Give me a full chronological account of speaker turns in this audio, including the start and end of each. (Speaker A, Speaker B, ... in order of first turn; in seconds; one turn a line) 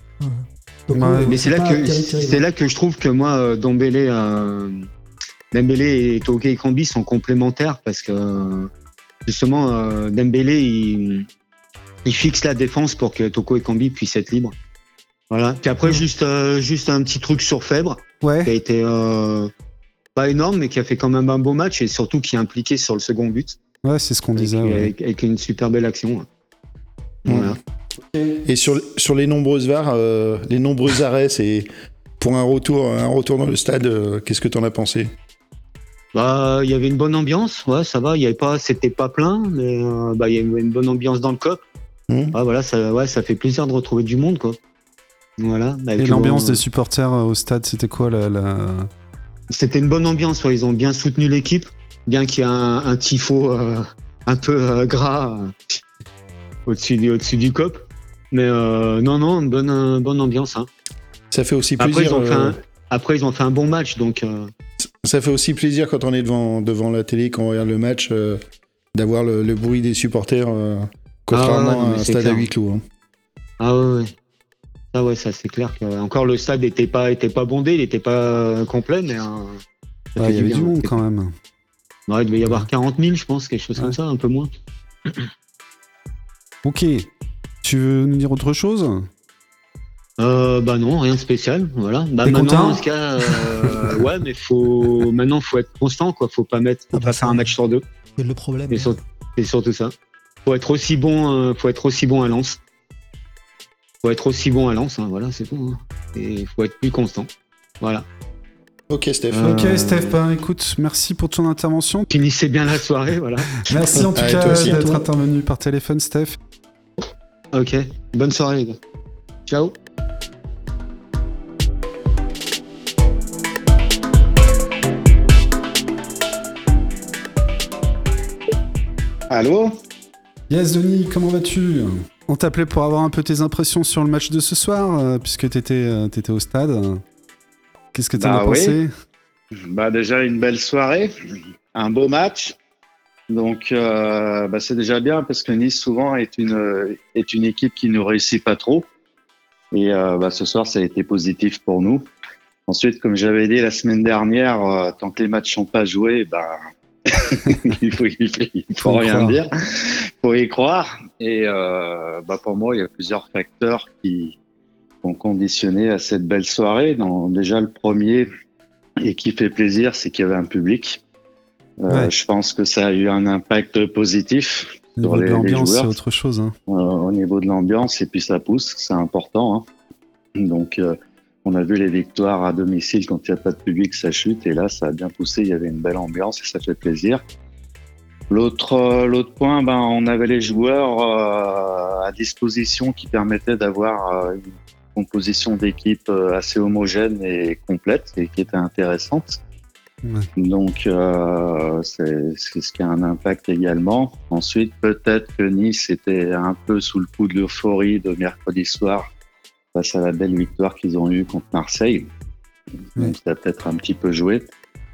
Speaker A: 0.2-2.4
Speaker B: 0.9-1.4
Speaker C: 1.3-4.9
Speaker C: 5.5-8.7
Speaker C: 9.3-11.3
Speaker C: 12.1-14.6
Speaker C: 15.3-19.5
Speaker B: 18.2-18.5
Speaker C: 20.1-23.6
Speaker B: 23.8-24.9
Speaker C: 24.4-26.3
Speaker C: 27.2-27.6
Speaker D: 27.3-27.6
Speaker D: 28.4-31.7
Speaker D: 32.2-35.1
Speaker C: 36.1-41.6
Speaker D: 42.1-42.4
Speaker C: 42.3-44.6
Speaker C: 45.4-46.6
Speaker B: 46.0-48.9
Speaker C: 49.5-55.8
Speaker C: 56.7-60.7
Speaker D: 61.3-62.6
Speaker C: 61.8-64.5
Speaker D: 65.0-68.4
Speaker D: 68.9-72.8
Speaker C: 71.3-72.5
Speaker C: 73.6-74.1
Speaker C: 74.9-79.6
Speaker C: 80.1-80.9
Speaker B: 80.2-81.3
Speaker C: 82.1-84.5
Speaker B: 86.6-87.1
Speaker B: 87.6-89.1
Speaker C: 90.2-97.8
Speaker B: 92.2-94.0
Speaker A: 96.9-97.5
Speaker A: 98.2-99.0
Speaker C: 98.7-99.9
Speaker C: 100.5-102.6
Speaker C: 104.0-107.3
Speaker C: 107.8-108.1
Speaker D: 108.9-109.8
Speaker C: 109.3-110.2
Speaker B: 109.4-112.1
Speaker C: 112.1-115.0
Speaker B: 113.6-116.4
Speaker D: 114.0-114.9
Speaker C: 117.5-118.8
Speaker C: 119.5-119.8
Speaker C: 129.3-129.7
Speaker E: 129.4-129.7
Speaker B: 130.5-137.0
Speaker B: 137.9-138.9
Speaker E: 138.2-138.8
Speaker E: 139.5-141.1
Speaker E: 141.7-142.6
Speaker E: 143.3-148.9
Speaker E: 149.7-152.1
Speaker E: 152.7-156.6
Speaker E: 157.1-164.4
Speaker B: 158.8-159.4
Speaker E: 165.0-168.3
Speaker E: 169.0-171.0
Speaker E: 171.8-175.9
Speaker B: 175.0-176.6
Speaker E: 176.7-179.7
Speaker E: 180.4-187.2
Speaker E: 188.3-199.4
Speaker B: 200.0-200.3
Speaker E: 200.4-209.1
Speaker E: 209.8-212.1
Speaker E: 213.0-214.5